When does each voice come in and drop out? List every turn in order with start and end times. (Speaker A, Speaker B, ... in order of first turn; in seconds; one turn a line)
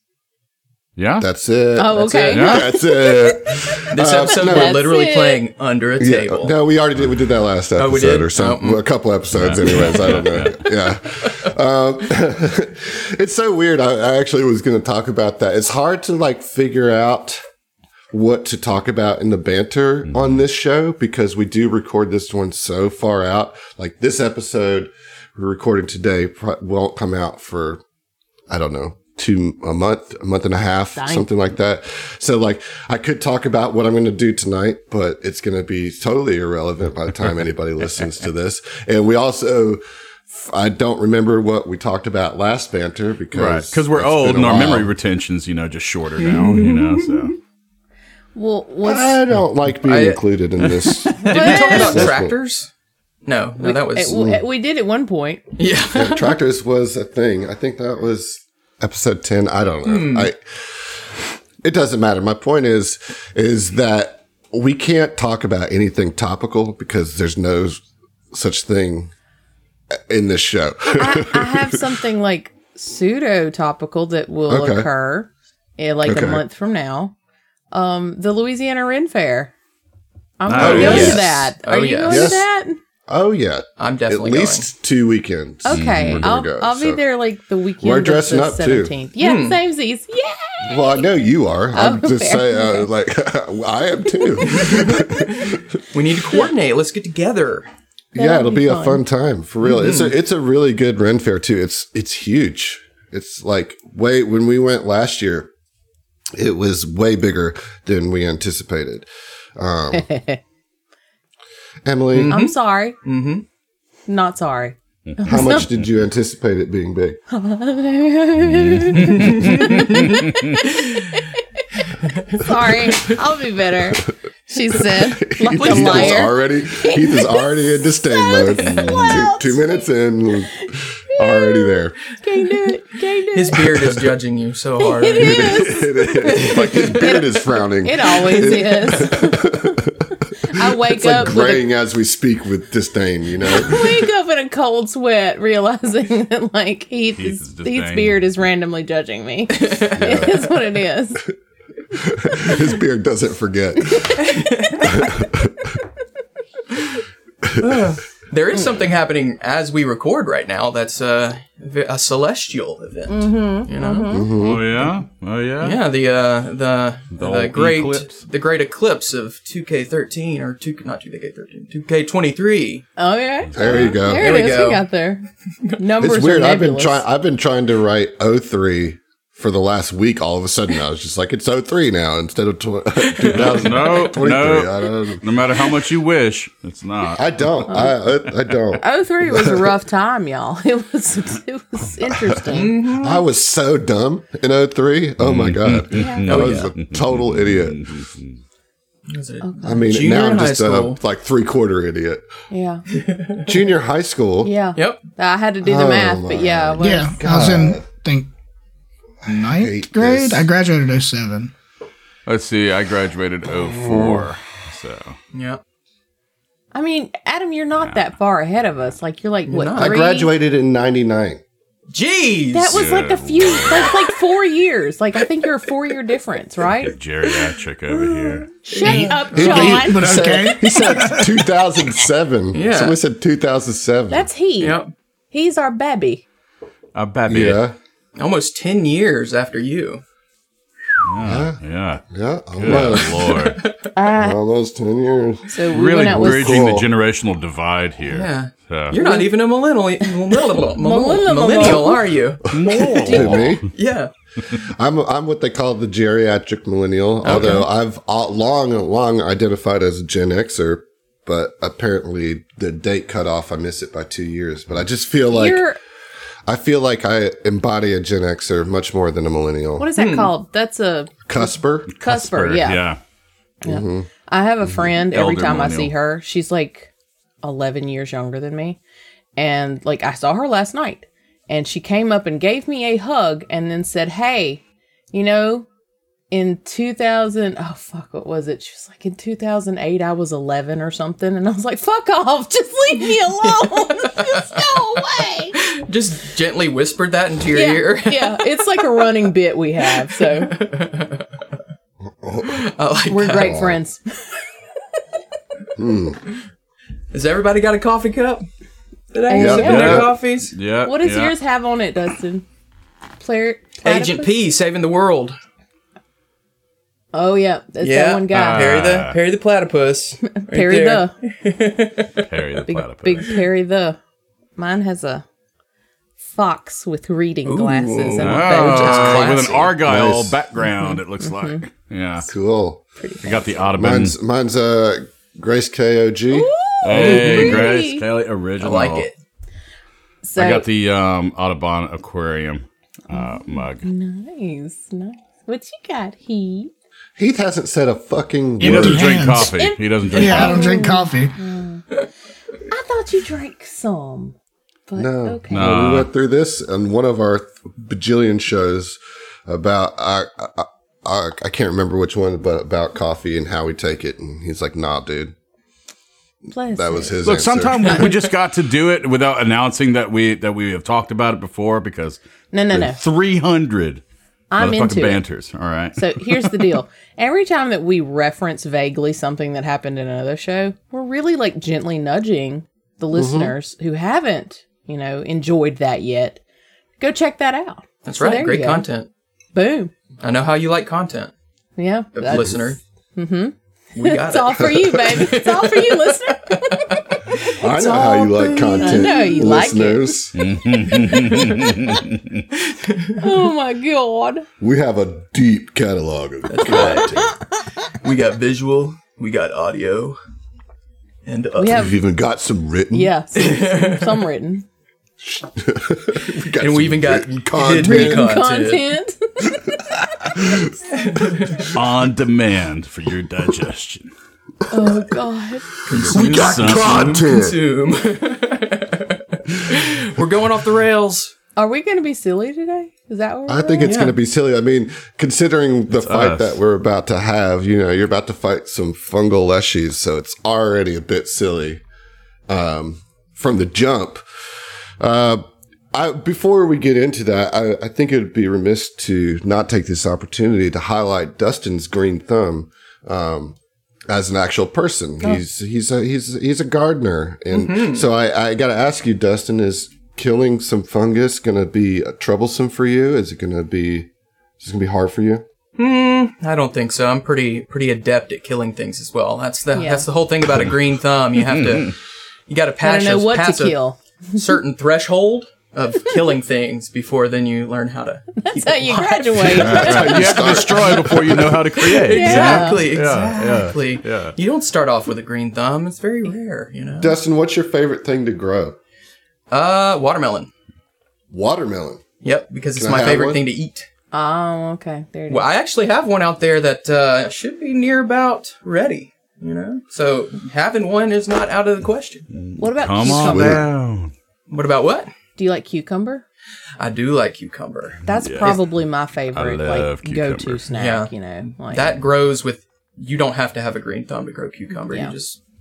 Speaker A: 1.0-1.3
Speaker B: 1.2-4.8
Speaker C: 1.8-5.4
Speaker A: 2.3-2.7
Speaker D: 3.9-6.5
Speaker B: 6.0-17.4
Speaker D: 7.8-8.8
Speaker A: 9.3-10.6
Speaker D: 9.6-10.5
Speaker B: 18.1-27.8
Speaker B: 28.5-44.9
Speaker C: 31.0-31.3
Speaker A: 37.8-38.1
Speaker A: 43.3-47.4
Speaker D: 46.2-47.3
Speaker C: 48.4-49.2
Speaker B: 48.8-52.4
Speaker D: 49.8-50.2
Speaker D: 51.0-52.7
Speaker A: 51.0-51.5
Speaker C: 51.1-52.1
Speaker D: 53.2-54.2
Speaker C: 53.6-55.5
Speaker B: 54.1-54.4
Speaker D: 55.6-56.4
Speaker B: 55.9-61.0
Speaker D: 59.9-60.3
Speaker B: 61.6-69.1
Speaker B: 69.9-71.8
Speaker C: 70.8-77.1
Speaker B: 74.5-74.9
Speaker B: 76.0-76.4
Speaker C: 77.7-79.5
Speaker C: 80.4-82.8
Speaker A: 80.5-81.2
Speaker B: 80.5-81.5
Speaker D: 80.6-82.4
Speaker B: 82.1-82.5
Speaker B: 83.1-87.0
Speaker D: 83.8-84.7
Speaker C: 85.6-91.1
Speaker A: 85.7-86.2
Speaker B: 87.8-88.9
Speaker D: 89.2-89.6
Speaker B: 90.7-95.8
Speaker C: 91.7-92.9
Speaker D: 94.5-94.8
Speaker C: 94.5-94.8
Speaker D: 95.9-97.7
Speaker B: 98.1-105.5
Speaker C: 98.1-99.0
Speaker D: 99.6-100.1
Speaker B: 106.3-110.1
Speaker C: 109.9-110.4
Speaker B: 111.8-112.3
Speaker D: 112.1-113.4
Speaker C: 112.3-113.0
Speaker C: 114.1-115.7
Speaker B: 115.2-117.2
Speaker A: 115.3-115.8
Speaker C: 117.3-133.9
Speaker A: 118.4-119.8
Speaker D: 119.1-120.1
Speaker D: 122.1-123.1
Speaker B: 124.7-132.0
Speaker A: 128.7-129.2
Speaker D: 133.3-137.2
Speaker B: 133.7-134.0
Speaker C: 134.8-139.8
Speaker B: 135.1-143.9
Speaker D: 138.2-139.1
Speaker C: 140.4-141.7
Speaker C: 143.4-151.2
Speaker A: 147.2-148.2
Speaker D: 149.5-150.2
Speaker B: 149.9-150.5
Speaker B: 151.9-154.3
Speaker C: 153.9-154.9
Speaker D: 154.2-154.9
Speaker B: 154.8-155.8
Speaker B: 157.4-157.8
Speaker D: 157.6-164.2
Speaker C: 163.1-164.4
Speaker B: 164.1-164.6
Speaker A: 164.4-165.8
Speaker D: 165.6-172.9
Speaker A: 167.1-168.2
Speaker C: 173.0-177.0
Speaker B: 173.6-174.6
Speaker A: 173.6-173.9
Speaker D: 173.6-174.9
Speaker B: 176.0-185.2
Speaker D: 183.0-184.0
Speaker A: 183.2-187.7
Speaker B: 187.2-189.8
Speaker C: 187.7-187.9
Speaker C: 188.8-192.8
Speaker B: 192.0-192.4
Speaker D: 192.5-193.2
Speaker B: 192.9-198.1
Speaker A: 195.2-198.3
Speaker C: 195.9-196.5
Speaker D: 196.3-196.7
Speaker D: 199.1-201.0
Speaker C: 199.4-199.7
Speaker B: 199.6-202.2
Speaker C: 202.5-202.8
Speaker D: 202.9-203.5
Speaker B: 203.4-204.5
Speaker C: 204.4-207.2
Speaker D: 204.8-205.0
Speaker B: 205.6-207.9
Speaker E: 206.8-208.3
Speaker E: 209.2-211.5
Speaker B: 209.2-210.5
Speaker A: 212.2-215.2
Speaker B: 213.9-214.3
Speaker D: 215.3-215.6
Speaker C: 216.7-220.3
Speaker D: 219.4-220.0
Speaker B: 219.8-221.4
Speaker D: 221.9-222.9
Speaker C: 222.5-226.9
Speaker A: 222.7-223.9
Speaker A: 226.8-228.5
Speaker D: 228.0-229.8
Speaker C: 228.6-230.3
Speaker B: 229.3-234.3
Speaker E: 229.4-231.5
Speaker D: 232.5-233.0
Speaker C: 234.1-234.8
Speaker D: 234.6-234.9
Speaker C: 235.3-236.2
Speaker A: 236.9-237.7
Speaker B: 237.3-237.8
Speaker D: 238.2-240.0
Speaker A: 241.0-242.0
Speaker B: 241.2-241.6
Speaker B: 242.1-243.3
Speaker A: 242.6-243.6
Speaker D: 242.7-243.9
Speaker C: 243.9-244.4
Speaker B: 244.1-246.9
Speaker C: 245.5-246.7
Speaker A: 245.7-249.0
Speaker D: 248.1-254.1
Speaker C: 248.9-249.3
Speaker C: 250.4-252.1
Speaker B: 252.5-253.6
Speaker A: 252.5-253.7
Speaker C: 252.9-253.4
Speaker B: 254.6-265.6
Speaker D: 257.2-257.6
Speaker C: 257.3-257.6
Speaker C: 265.3-265.8
Speaker B: 266.5-269.9
Speaker C: 269.8-272.8
Speaker D: 269.9-270.3
Speaker B: 271.2-271.9
Speaker A: 271.9-273.0
Speaker C: 273.6-276.9
Speaker B: 273.6-274.1
Speaker A: 274.8-275.9
Speaker C: 277.4-278.8
Speaker C: 279.4-285.7
Speaker C: 286.3-295.6
Speaker D: 293.4-299.3
Speaker C: 297.5-300.6
Speaker D: 299.9-301.3
Speaker B: 302.2-302.7
Speaker D: 302.4-303.6
Speaker C: 303.1-304.4
Speaker B: 303.4-303.8
Speaker B: 305.8-306.2
Speaker D: 307.1-308.4
Speaker D: 309.1-310.6
Speaker C: 309.3-310.1
Speaker B: 309.3-310.1
Speaker A: 309.6-311.4
Speaker C: 310.8-312.4
Speaker C: 313.2-314.3
Speaker D: 313.8-315.3
Speaker C: 317.1-318.8
Speaker D: 317.8-322.2
Speaker A: 318.3-319.2
Speaker C: 320.2-321.1
Speaker A: 322.2-323.4
Speaker C: 322.6-324.0
Speaker C: 324.6-325.2
Speaker C: 326.2-329.6
Speaker D: 327.5-329.8
Speaker A: 328.2-332.3
Speaker B: 329.7-330.4
Speaker C: 330.7-331.6
Speaker B: 332.3-332.8
Speaker C: 333.0-333.5
Speaker A: 333.2-334.1
Speaker B: 333.8-337.3
Speaker C: 336.3-338.1
Speaker A: 336.8-339.1
Speaker D: 337.3-337.5
Speaker D: 338.6-339.1
Speaker C: 340.2-340.7
Speaker A: 340.4-343.9
Speaker C: 343.1-346.7
Speaker B: 347.2-349.3
Speaker E: 348.6-349.6
Speaker A: 348.6-350.8
Speaker C: 349.4-351.9
Speaker E: 350.1-351.4
Speaker C: 352.7-354.4
Speaker C: 354.9-355.7
Speaker B: 354.9-365.3
Speaker A: 355.5-356.1
Speaker C: 366.5-367.1
Speaker B: 366.8-368.1
Speaker A: 367.2-372.2
Speaker C: 372.5-373.0
Speaker A: 372.7-374.0
Speaker C: 374.5-375.2
Speaker A: 374.6-376.6
Speaker C: 376.0-386.4
Speaker B: 383.1-383.5
Speaker C: 387.0-388.9
Speaker D: 388.1-389.1
Speaker C: 389.5-389.9
Speaker D: 390.2-391.3
Speaker C: 391.8-397.1
Speaker D: 392.1-392.8
Speaker D: 393.9-398.3
Speaker B: 397.6-400.4
Speaker C: 397.7-400.2
Speaker A: 400.3-402.4
Speaker C: 401.0-402.0
Speaker D: 402.7-403.3
Speaker C: 403.2-404.5
Speaker B: 404.6-407.3
Speaker D: 406.5-407.1
Speaker D: 408.0-410.2
Speaker D: 411.2-411.9
Speaker C: 411.6-412.0
Speaker B: 411.7-413.1
Speaker C: 412.9-414.6
Speaker D: 413.4-414.1
Speaker B: 415.2-418.3
Speaker D: 416.6-418.8
Speaker C: 417.8-419.6
Speaker B: 420.3-420.6
Speaker D: 420.9-421.7
Speaker A: 421.7-424.1
Speaker C: 424.7-425.7
Speaker D: 425.9-431.3
Speaker B: 425.9-427.6
Speaker A: 426.1-427.2
Speaker C: 431.6-433.9
Speaker B: 433.5-441.8
Speaker D: 433.8-434.1
Speaker A: 435.9-436.6
Speaker B: 442.5-444.2
Speaker B: 445.0-453.6
Speaker B: 454.1-464.1
Speaker D: 457.5-458.1
Speaker B: 464.6-465.4
Speaker D: 465.8-471.9
Speaker C: 469.7-470.1
Speaker A: 471.4-471.9
Speaker D: 472.5-473.8
Speaker C: 472.8-474.0
Speaker D: 474.3-480.6
Speaker C: 478.4-480.6
Speaker A: 479.6-484.3
Speaker B: 479.6-481.8
Speaker D: 482.0-487.2
Speaker C: 482.1-482.9
Speaker B: 487.0-488.8
Speaker D: 489.5-490.5
Speaker B: 491.3-492.0
Speaker D: 492.2-493.9
Speaker B: 492.7-493.4
Speaker C: 494.1-495.5
Speaker D: 495.3-502.3
Speaker A: 502.3-504.1
Speaker C: 502.6-503.7
Speaker B: 503.1-503.7
Speaker D: 504.5-505.1
Speaker C: 505.4-506.2
Speaker D: 506.8-508.6
Speaker C: 508.1-512.0
Speaker A: 508.2-508.6
Speaker A: 509.3-510.6
Speaker D: 510.7-515.4
Speaker C: 514.9-515.1